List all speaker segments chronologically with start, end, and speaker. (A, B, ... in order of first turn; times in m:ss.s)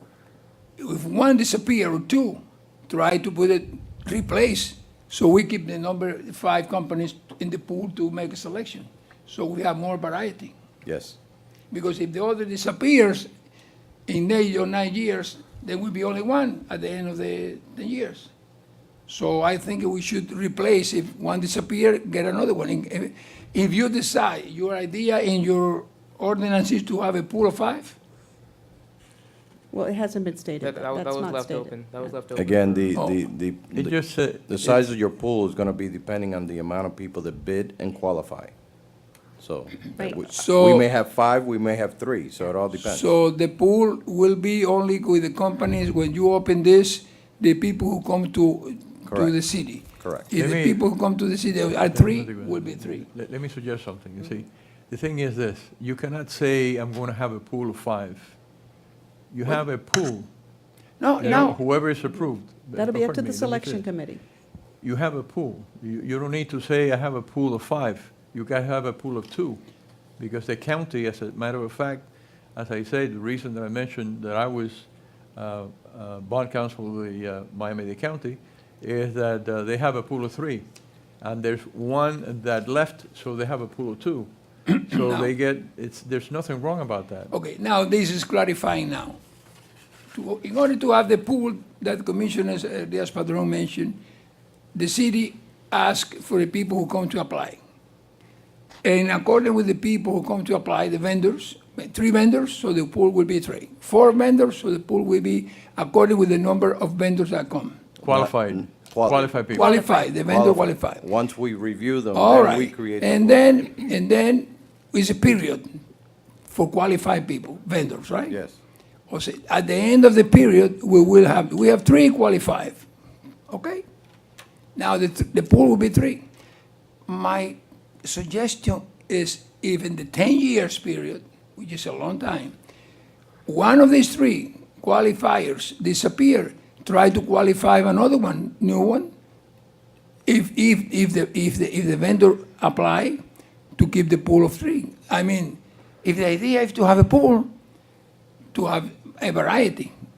0:00.8-0:10.5 A
0:10.8-0:11.2 B
0:11.7-0:13.3 A
0:14.1-0:18.3 A
0:19.1-0:28.0 A
0:29.7-0:32.1 C
0:30.6-0:33.0 D
0:32.3-0:38.5 B
0:33.7-0:35.0 E
0:39.4-0:43.1 B
0:40.1-0:40.9 A
0:42.7-0:53.1 A
0:49.0-0:50.3 B
0:50.3-0:58.7 E
0:59.3-1:00.4 E
1:01.0-1:01.6 A
1:01.2-1:03.9 E
1:01.2-1:01.6 C
1:02.7-1:04.2 C
1:04.8-1:27.3 E
1:24.9-1:25.3 A
1:27.3-1:29.2 A
1:30.1-1:34.0 A
1:34.7-1:37.6 A
1:38.8-1:47.8 A
1:48.0-1:53.4 B
1:48.0-1:49.7 E
1:49.1-1:51.0 A
1:52.1-1:55.7 A
1:56.5-1:58.4 A
1:58.3-1:58.6 B
1:59.1-2:02.9 A
2:03.5-2:03.8 A
2:04.8-2:06.2 A
2:07.1-2:12.5 A
2:13.4-2:19.1 A
2:20.2-2:23.2 A
2:23.8-2:27.5 A
2:28.5-2:29.9 A